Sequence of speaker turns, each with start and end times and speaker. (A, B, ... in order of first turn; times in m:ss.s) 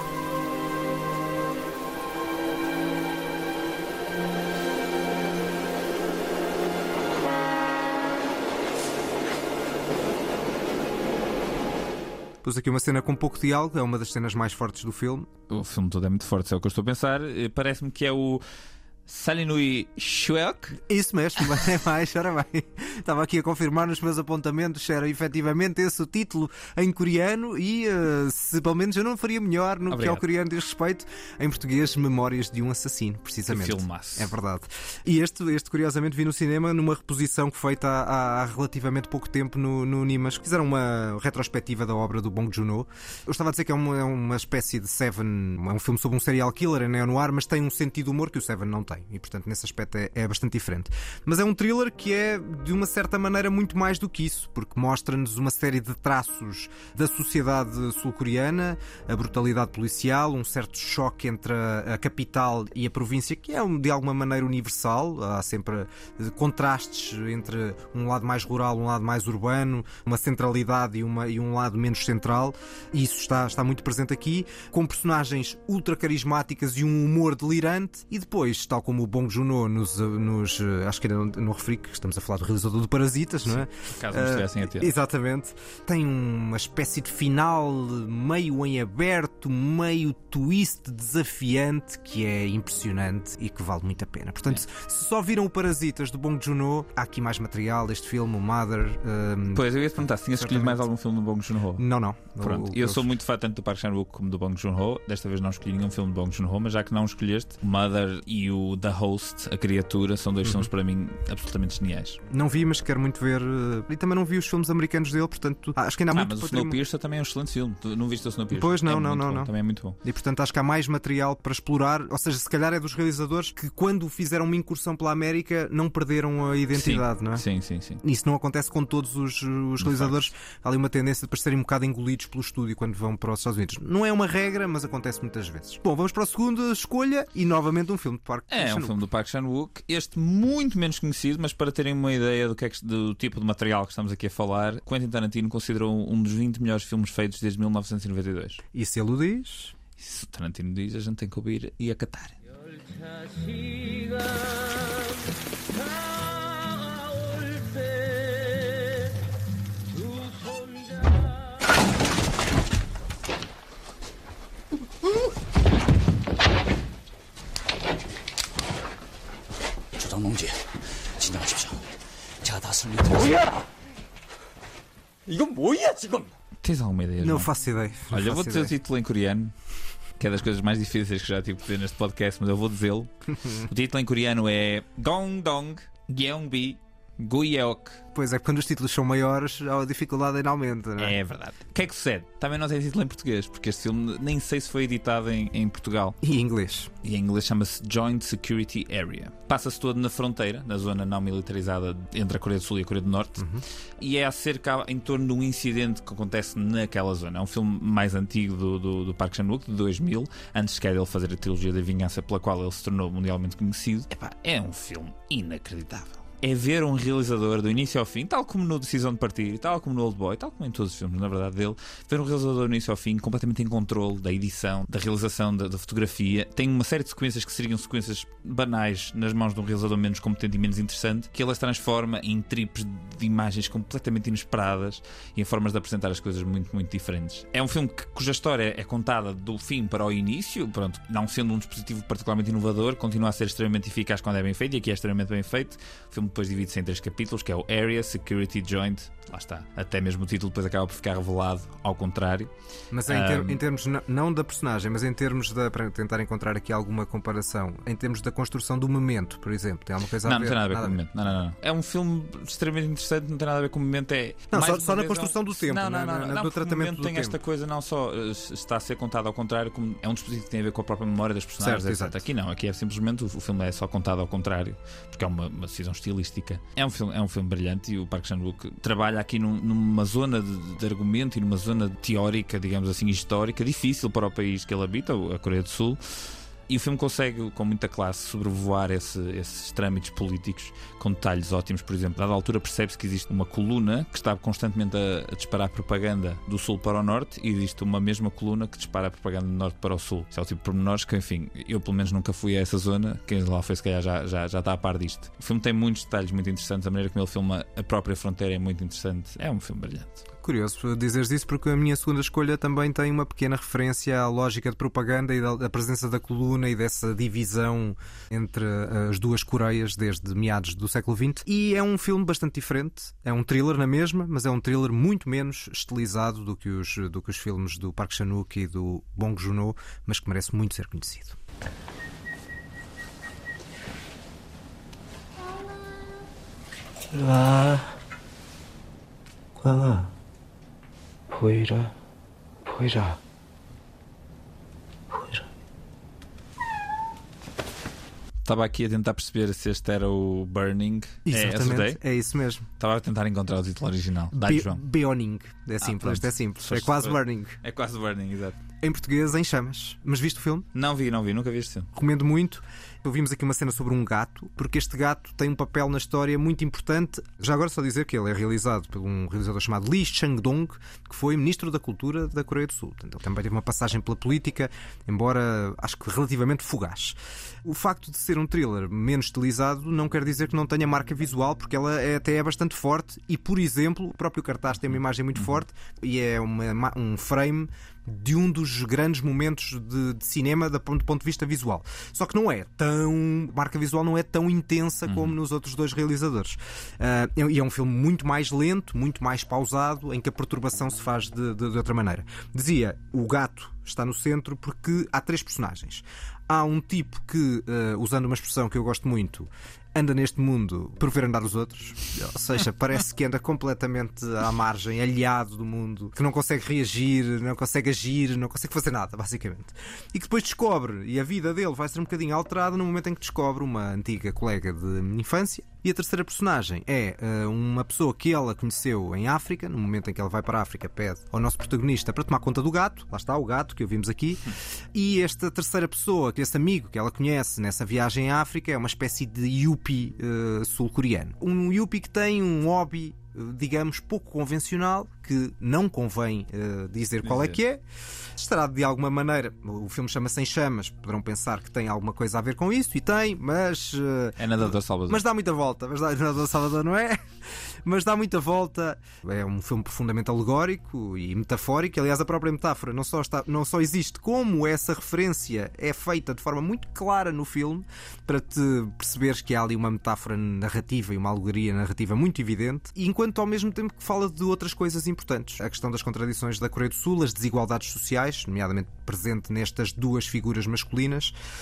0:12.4-0:15.3 A
0:15.5-0:18.4 B
0:19.1-0:20.8 B
0:20.9-1:39.6 A
0:29.9-0:30.2 B
0:33.5-0:34.3 B
1:23.5-1:24.9 B
1:39.5-1:41.8 B
1:40.3-1:40.8 A
1:41.8-1:43.0 A
1:42.4-1:52.2 B
1:50.4-1:50.7 A
1:52.3-1:56.8 A
1:56.1-2:00.0 B
1:58.5-1:59.5 A
2:00.0-2:07.4 A
2:06.7-2:08.0 B
2:08.0-2:19.0 A
2:09.8-2:10.2 B
2:18.5-2:28.6 B
2:28.7-2:29.7 A
2:30.0-2:32.4 B
2:50.0-2:50.5 C
2:51.2-2:51.7 C
2:52.4-2:53.4 C
2:55.3-2:56.3 C
2:56.6-2:57.5 B
2:57.2-2:58.7 A
2:58.1-2:59.5 B
3:00.2-3:08.0 B
3:08.2-3:11.2 A
3:11.0-3:16.2 B
3:16.2-3:16.9 A
3:17.0-3:23.4 B
3:23.4-3:23.6 A
3:24.0-4:12.5 B
4:12.9-4:21.0 A
4:13.1-4:13.6 B
4:20.2-5:10.2 B
4:24.5-4:27.4 A
4:31.6-4:32.2 A
5:10.4-5:31.4 A
5:37.1-5:37.9 D
5:39.6-5:40.1 D
5:41.3-5:41.9 D
5:42.7-5:43.2 D
5:45.1-5:45.4 D
5:48.4-5:52.0 B
5:51.3-5:52.7 A
5:52.8-5:54.8 B
5:54.5-5:57.6 A
5:55.8-5:58.6 B
5:58.8-6:00.7 A
6:00.8-6:01.9 B
6:02.0-7:27.8 A
6:35.1-6:35.4 B
7:27.2-7:27.6 B
7:28.4-7:37.3 A
7:34.4-7:35.2 B
7:37.8-8:01.4 A